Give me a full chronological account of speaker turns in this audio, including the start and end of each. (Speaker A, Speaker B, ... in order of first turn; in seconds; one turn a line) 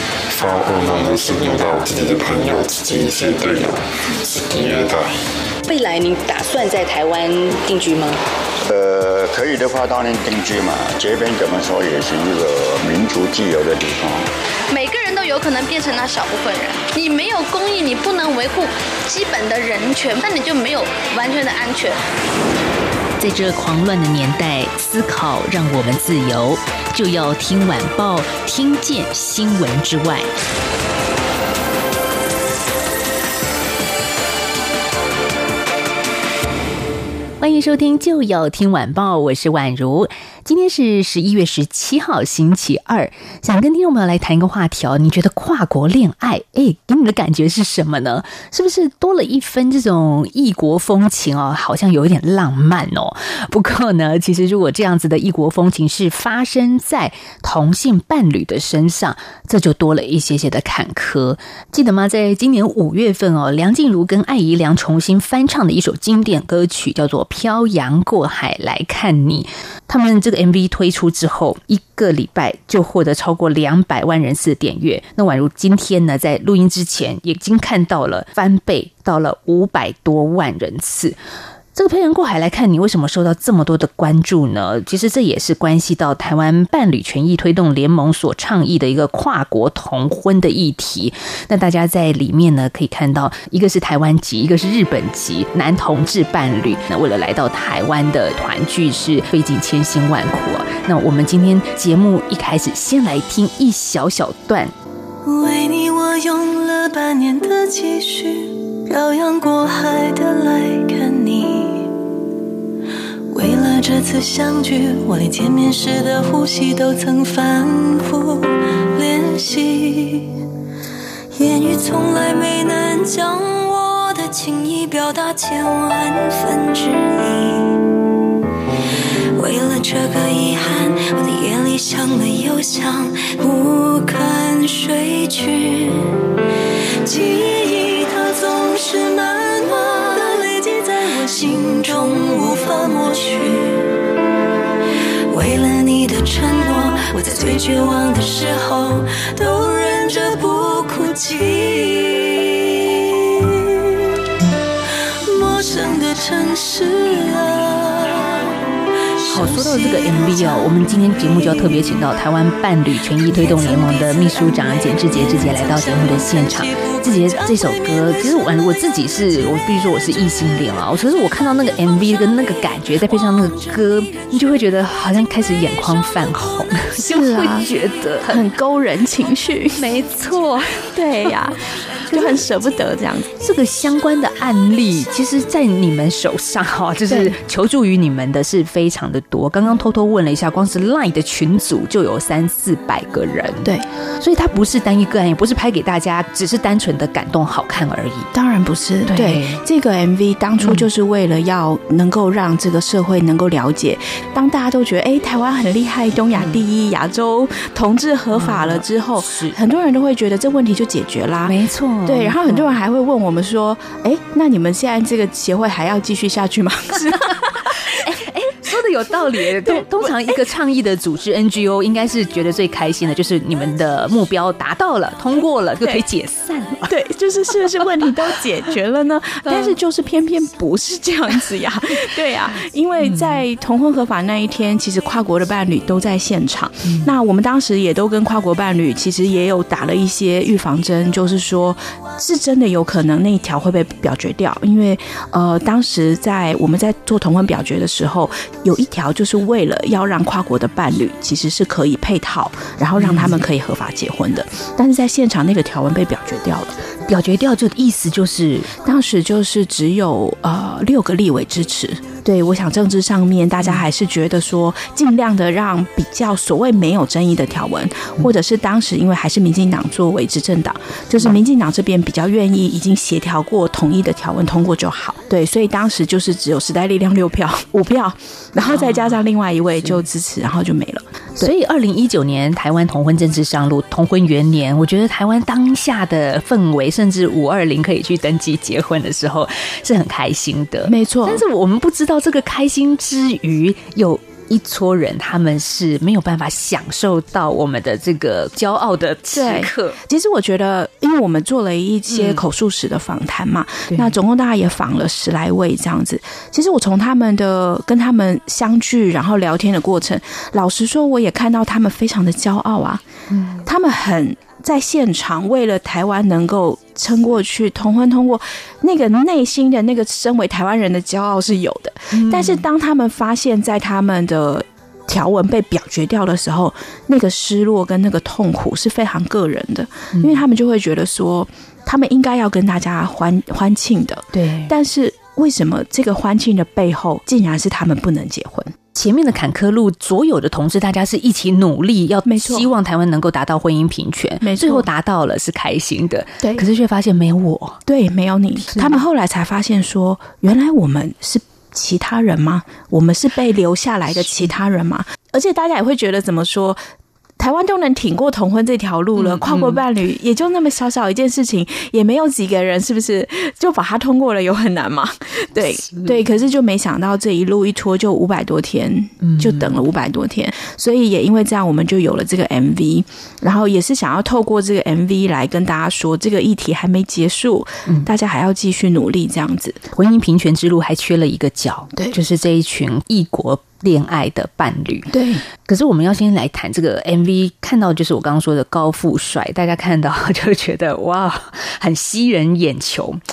Speaker A: 0.3-5.2
Speaker B: 5.7-8.2
Speaker C: 8.7-14.3
Speaker D: 14.7-22.0
Speaker E: 23.2-30.3
Speaker E: 37.4-81.2
Speaker E: 81.8-104.7
Speaker F: 105.2-111.9
Speaker F: 113.3-120.4
Speaker F: 121.3-127.8
Speaker F: 129.3-136.2
Speaker F: 137.0-143.9
Speaker F: 145.3-154.1
Speaker F: 155.2-158.5
Speaker F: 159.2-162.0
Speaker E: 159.3-178.4
Speaker F: 163.2-168.4
Speaker G: 177.0-179.9
Speaker E: 179.8-180.8
Speaker G: 180.8-183.3
Speaker E: 182.1-182.4
Speaker E: 183.4-198.3
Speaker G: 187.1-187.4
Speaker G: 193.6-193.9
Speaker G: 198.3-218.0
Speaker E: 199.1-199.6
Speaker E: 200.6-200.9
Speaker E: 208.3-209.6
Speaker E: 211.4-212.7
Speaker E: 217.9-226.9
Speaker G: 219.5-220.3
Speaker G: 226.9-256.8
Speaker E: 229.5-229.7
Speaker E: 233.0-233.4
Speaker E: 236.8-237.1
Speaker E: 253.0-253.4
Speaker E: 257.1-258.7
Speaker G: 258.8-281.5
Speaker E: 278.6-279.2
Speaker E: 281.4-300.0
Speaker G: 290.9-291.4
Speaker G: 299.3-313.0
Speaker E: 302.1-302.4
Speaker E: 303.9-304.1
Speaker E: 313.3-313.7
Speaker G: 313.6-338.7
Speaker E: 322.1-322.6
Speaker E: 330.1-330.4
Speaker E: 334.3-334.7
Speaker E: 338.9-347.8
Speaker G: 342.3-342.7
Speaker G: 344.4-344.9
Speaker G: 346.4-346.7
Speaker G: 347.9-356.8
Speaker G: 357.4-379.8
Speaker E: 359.2-359.8
Speaker E: 369.2-369.8
Speaker E: 379.9-393.2
Speaker G: 385.1-385.4